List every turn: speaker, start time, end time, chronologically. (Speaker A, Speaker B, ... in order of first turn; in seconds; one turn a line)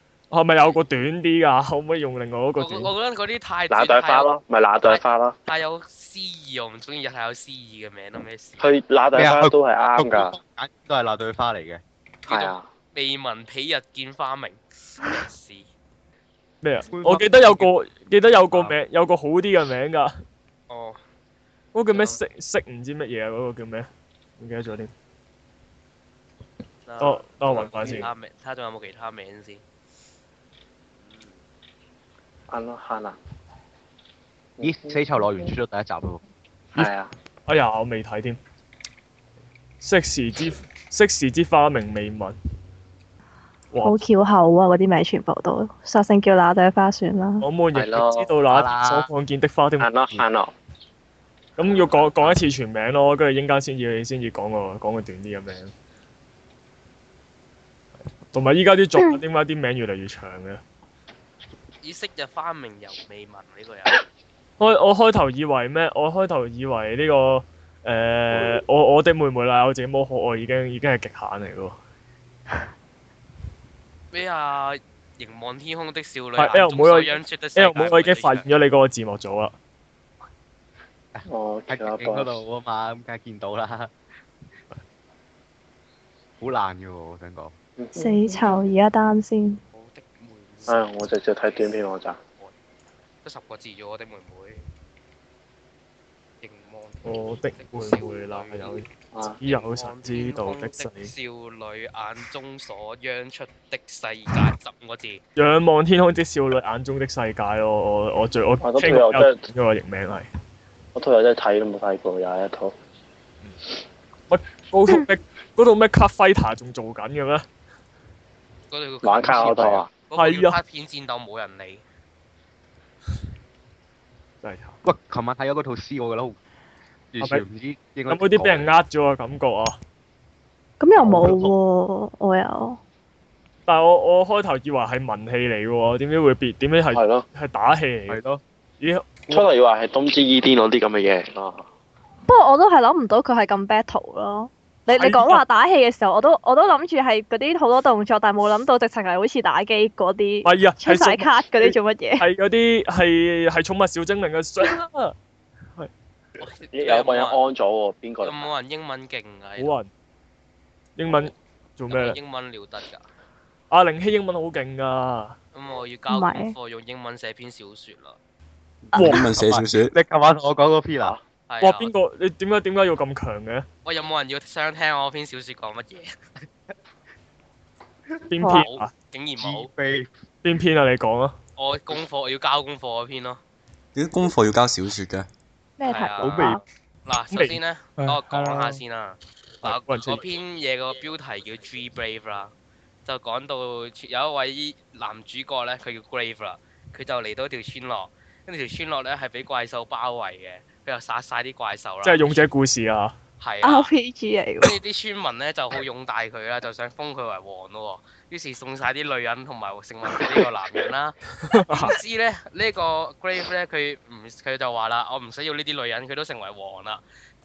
Speaker A: 0.3-2.9
Speaker B: 2.6-4.3
Speaker C: 3.7-5.3
Speaker B: 4.8-8.7
Speaker C: 8.6-10.3
Speaker D: 9.1-11.8
Speaker B: 12.2-15.7
Speaker C: 12.3-12.6
Speaker A: 16.6-20.1
Speaker D: 16.9-17.7
Speaker B: 20.7-21.0
Speaker A: 21.7-23.9
Speaker B: 21.9-22.2
Speaker A: 24.4-24.9
Speaker B: 26.9-29.6
Speaker A: 27.0-28.1
Speaker B: 31.0-31.4
Speaker C: 32.5-33.2
Speaker C: 34.6-35.5
Speaker D: 34.6-36.2
Speaker C: 36.7-37.1
Speaker A: 37.5-38.4
Speaker A: 39.8-42.4
Speaker A: 43.7-44.0
Speaker E: 43.8-47.5
Speaker A: 47.4-50.2
Speaker C: 47.7-48.3
Speaker D: 48.5-49.1
Speaker C: 49.8-50.5
Speaker A: 51.6-55.7
Speaker A: 58.3-60.6
Speaker B: 61.8-64.0
Speaker A: 64.6-71.7
Speaker B: 74.1-78.5
Speaker A: 76.4-79.5
Speaker D: 81.1-83.9
Speaker C: 81.3-82.4
Speaker D: 86.4-87.5
Speaker C: 87.8-88.5
Speaker E: 88.0-89.6
Speaker B: 89.7-90.8
Speaker C: 90.7-92.2
Speaker B: 93.2-94.6
Speaker B: 96.4-98.8
Speaker A: 97.0-98.8
Speaker C: 99.1-99.4
Speaker A: 99.4-101.1
Speaker B: 99.4-105.2
Speaker A: 105.3-110.3
Speaker C: 108.6-109.4
Speaker C: 110.9-112.7
Speaker A: 114.3-117.4
Speaker B: 118.7-121.8
Speaker C: 119.0-119.9
Speaker A: 120.1-120.6
Speaker A: 124.4-124.8
Speaker D: 124.8-126.3
Speaker D: 127.1-128.7
Speaker A: 128.1-129.8
Speaker E: 130.8-132.8
Speaker D: 131.0-131.5
Speaker A: 133.7-139.4
Speaker C: 136.9-137.2
Speaker C: 139.3-141.6
Speaker E: 142.2-152.2
Speaker A: 144.9-145.4
Speaker A: 150.4-155.1
Speaker B: 156.4-157.4
Speaker C: 156.7-158.5
Speaker B: 158.2-159.7
Speaker A: 159.6-159.9
Speaker A: 161.0-162.2
Speaker B: 161.9-163.0
Speaker A: 163.7-165.3
Speaker B: 165.5-168.2
Speaker E: 166.1-166.5
Speaker F: 168.9-169.9
Speaker A: 168.9-169.2
Speaker D: 169.0-171.2
Speaker B: 171.5-171.9
Speaker A: 171.6-173.7
Speaker B: 173.8-176.2
Speaker A: 178.3-178.9
Speaker E: 178.4-178.7
Speaker B: 178.5-179.7
Speaker D: 179.4-180.1
Speaker A: 180.4-181.3
Speaker B: 181.6-183.4
Speaker F: 183.9-185.3
Speaker E: 185.8-186.6
Speaker B: 185.8-192.5
Speaker D: 186.2-186.6
Speaker A: 187.3-188.6
Speaker A: 189.6-190.2
Speaker B: 193.0-202.4
Speaker A: 202.0-203.1
Speaker B: 203.4-203.9
Speaker E: 203.6-204.8
Speaker B: 204.6-217.0
Speaker A: 211.5-211.9